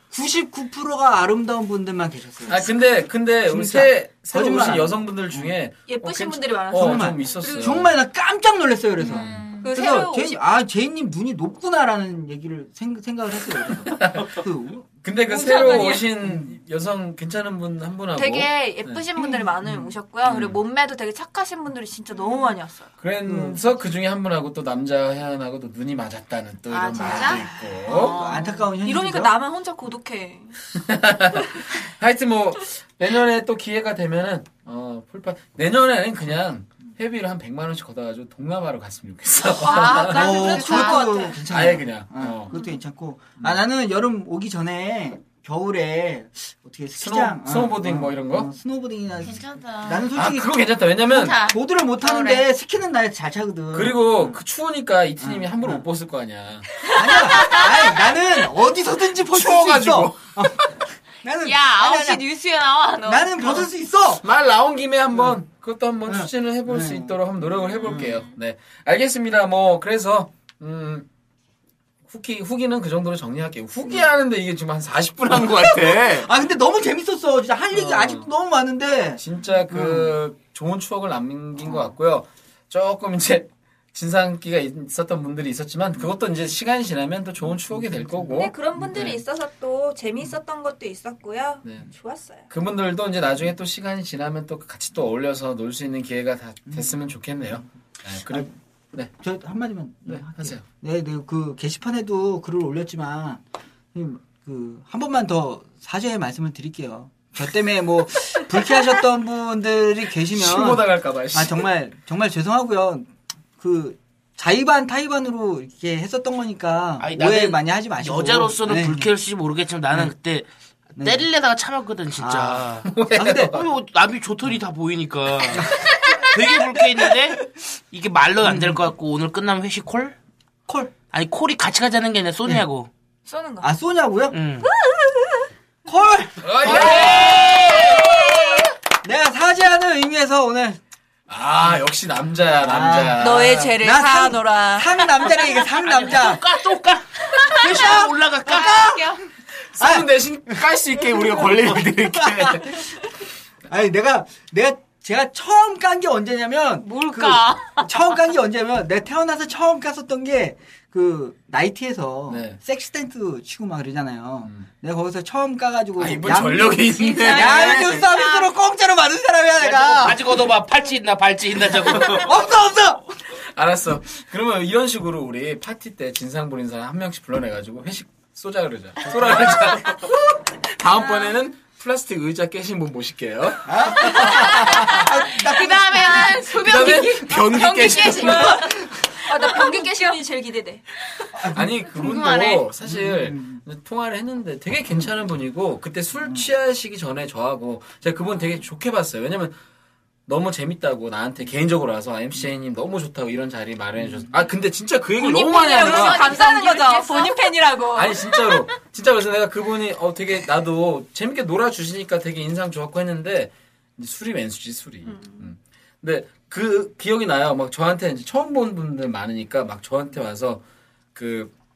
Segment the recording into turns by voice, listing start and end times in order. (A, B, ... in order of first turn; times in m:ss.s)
0:00.1-0:02.8 A
0:02.5-0:07.9 B
0:03.4-0:05.5 A
0:05.9-0:07.9 C
0:06.7-0:14.9 A
0:09.0-0:09.8 D
0:09.6-0:10.4 C
0:13.9-0:14.4 B
0:15.0-0:19.0 B
0:15.3-0:16.1 C
0:16.2-0:16.5 A
0:18.2-0:22.9 C
0:19.6-0:20.6 B
0:23.0-0:28.2 B
0:23.2-0:23.6 A
0:26.7-0:28.6 D
0:27.9-0:29.3 A
0:28.2-0:30.6 C
0:30.8-0:40.2 B
0:39.6-0:41.4 D
0:39.6-0:41.4 C
0:40.1-0:50.5 A
0:41.5-0:42.5 B
0:47.0-0:48.5 B
0:49.2-0:50.1 D
0:50.2-0:51.4 B
0:51.1-0:52.5 D
0:51.5-0:54.4 A
0:53.7-0:56.7 B
0:55.2-0:55.8 A
0:56.9-1:02.2 A
0:57.2-0:58.1 D
0:59.3-1:00.8 B
1:01.4-1:03.7 D
1:03.1-1:04.2 A
1:04.2-1:11.1 B
1:05.1-1:05.4 A
1:06.1-1:07.2 A
1:07.8-1:08.2 A
1:12.1-1:16.3 B
1:15.3-1:20.1 A
1:17.7-1:18.3 B
1:19.2-1:29.2 B
1:28.3-1:32.5 C
1:31.6-1:31.9 B
1:32.5-1:39.1 B
1:39.2-1:43.4 A
1:40.1-1:40.6 B
1:43.9-1:59.1 A
1:50.3-1:51.7 B
1:57.0-2:02.9 E
2:01.0-2:01.3 A
2:02.2-2:03.6 A
2:02.9-2:03.6 B
2:03.5-2:05.7 E
2:06.3-2:10.2 E
2:08.4-2:08.8 A
2:10.7-2:10.9 A
2:11.1-2:12.9 E
2:13.3-2:13.7 C
2:13.6-2:14.4 A
2:14.3-2:14.7 E
2:14.6-2:15.5 C
2:15.9-2:17.2 A
2:16.4-2:17.9 B
2:16.6-2:18.0 E
2:16.7-2:18.7 C
2:19.0-2:20.8 A
2:21.3-2:23.7 B
2:22.6-2:26.4 A
2:23.2-2:25.4 C
2:25.8-2:29.0 E
2:27.6-2:29.0 A
2:28.4-2:29.2 D
2:29.6-2:32.9 B
2:29.8-2:30.1 A
2:31.0-2:32.8 A
2:33.7-2:50.3 A
2:36.8-2:37.9 D
2:42.3-2:42.6 B
2:46.0-2:48.1 B
2:46.9-2:48.5 D
2:49.6-2:52.3 E
2:52.0-2:53.0 A
2:53.5-3:05.0 B
2:59.2-2:59.6 A
3:03.7-3:06.4 A
3:04.1-3:08.8 D
3:06.5-3:08.6 B
3:09.2-3:10.8 C
3:11.4-3:11.6 A
3:11.5-3:19.5 B
3:11.9-3:12.7 D
3:12.8-3:13.6 A
3:16.2-3:16.5 A
3:20.3-3:26.4 B
3:24.0-3:24.4 A
3:25.2-3:28.6 C
3:25.7-3:27.4 D
3:28.0-3:40.6 B
3:35.1-3:35.5 C
3:41.2-3:41.5 B